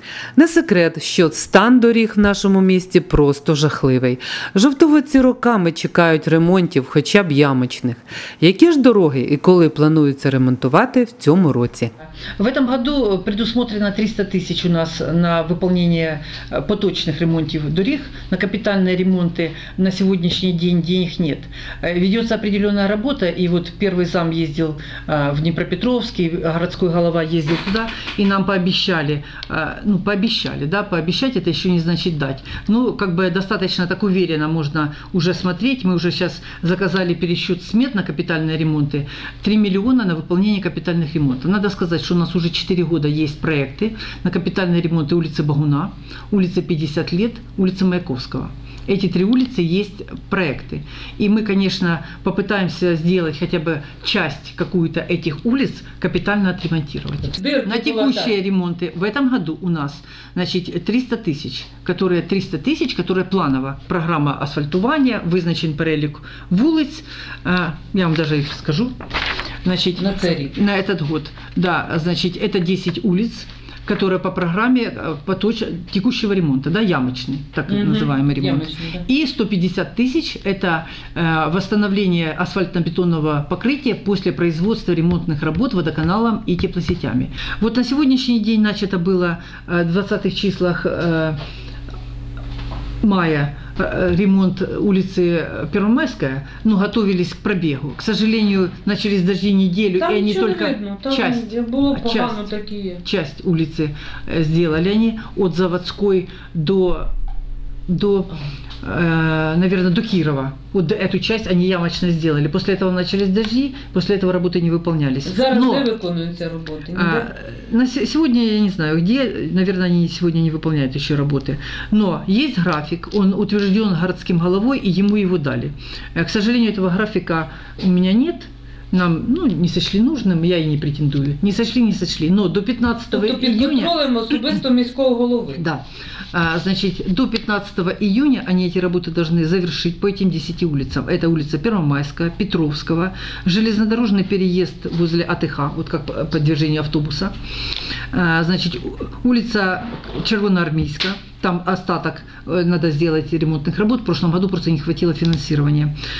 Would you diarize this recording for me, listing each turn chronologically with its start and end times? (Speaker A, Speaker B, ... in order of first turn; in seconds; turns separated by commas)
Speaker A: 0.3-11.9, Speaker B: 12.4-68.9, Speaker A: 57.4-58.3, Speaker C: 57.5-57.9, Speaker B: 69.6-91.4, Speaker C: 70.0-70.5, Speaker C: 77.7-79.0, Speaker B: 93.0-107.1, Speaker C: 100.0-101.2, Speaker A: 100.2-102.7, Speaker B: 107.9-115.9, Speaker C: 115.3-117.0, Speaker B: 116.9-134.6, Speaker C: 133.1-135.5, Speaker A: 133.5-134.7, Speaker B: 135.5-147.3, Speaker B: 148.1-155.9